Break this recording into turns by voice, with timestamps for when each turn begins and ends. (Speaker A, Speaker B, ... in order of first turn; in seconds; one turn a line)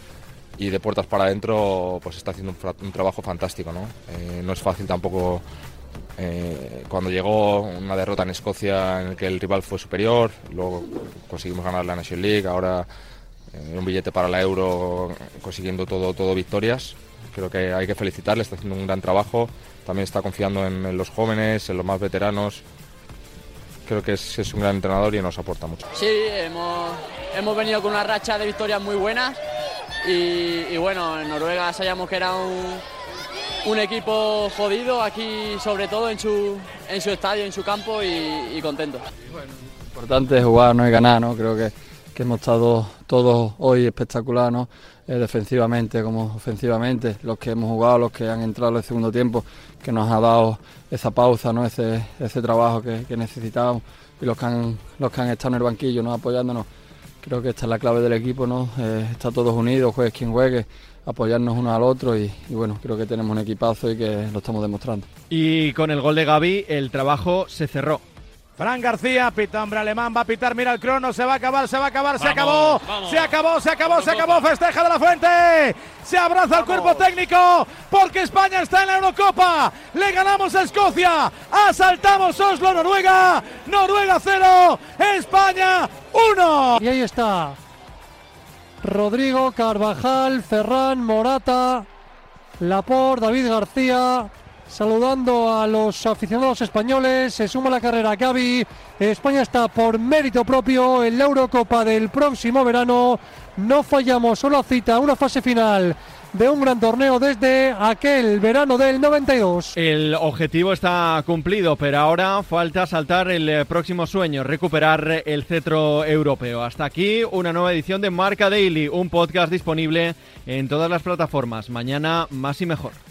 Speaker A: 0.6-5.5
Speaker A: 6.2-12.9
Speaker A: 13.5-22.6
Speaker A: 23.9-25.8
Speaker B: 25.9-29.4
Speaker B: 30.0-32.8
Speaker B: 33.6-39.0
Speaker C: 39.9-56.7
Speaker C: 57.2-65.1
Speaker D: 65.3-68.0
Speaker E: 68.6-86.8
Speaker F: 86.8-87.6
Speaker F: 88.8-91.9
Speaker F: 92.6-109.8
Speaker D: 109.8-123.0